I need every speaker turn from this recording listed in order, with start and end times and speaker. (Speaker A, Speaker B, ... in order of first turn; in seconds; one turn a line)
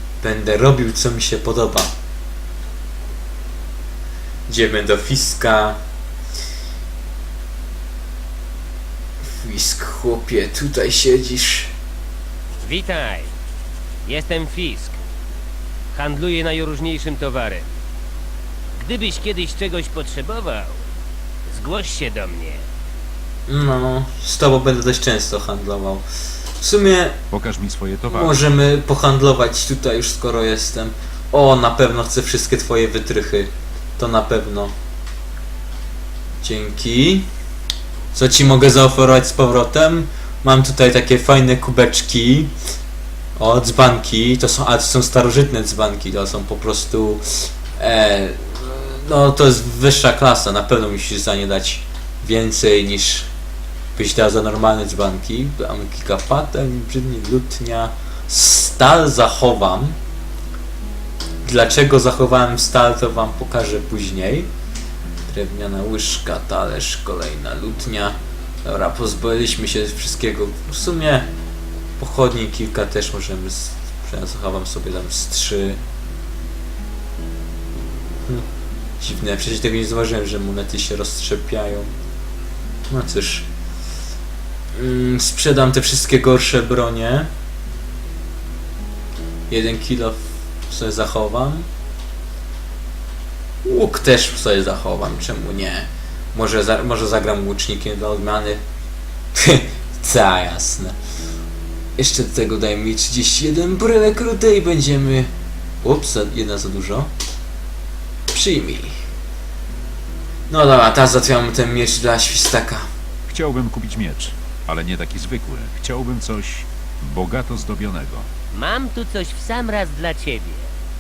Speaker A: 0.2-1.9
Speaker A: 4.5-5.8
Speaker A: 9.2-11.7
Speaker B: 12.6-13.3
Speaker B: 14.1-15.0
Speaker B: 15.9-17.7
Speaker B: 18.8-20.8
Speaker B: 21.5-22.6
Speaker A: 23.5-26.0
Speaker A: 26.6-27.2
Speaker C: 27.3-28.3
Speaker A: 28.1-34.7
Speaker A: 36.4-37.3
Speaker A: 38.1-42.5
Speaker A: 43.4-53.3
Speaker A: 54.0-60.0
Speaker A: 61.5-64.5
Speaker A: 65.3-71.3
Speaker A: 72.0-75.8
Speaker A: 79.0-81.9
Speaker A: 82.9-83.5
Speaker A: 84.8-87.3
Speaker A: 89.5-91.7
Speaker A: 93.6-98.6
Speaker A: 99.3-101.0
Speaker A: 102.0-105.3
Speaker A: 105.8-107.1
Speaker A: 108.3-109.0
Speaker A: 110.5-112.9
Speaker C: 113.3-118.3
Speaker B: 118.5-120.7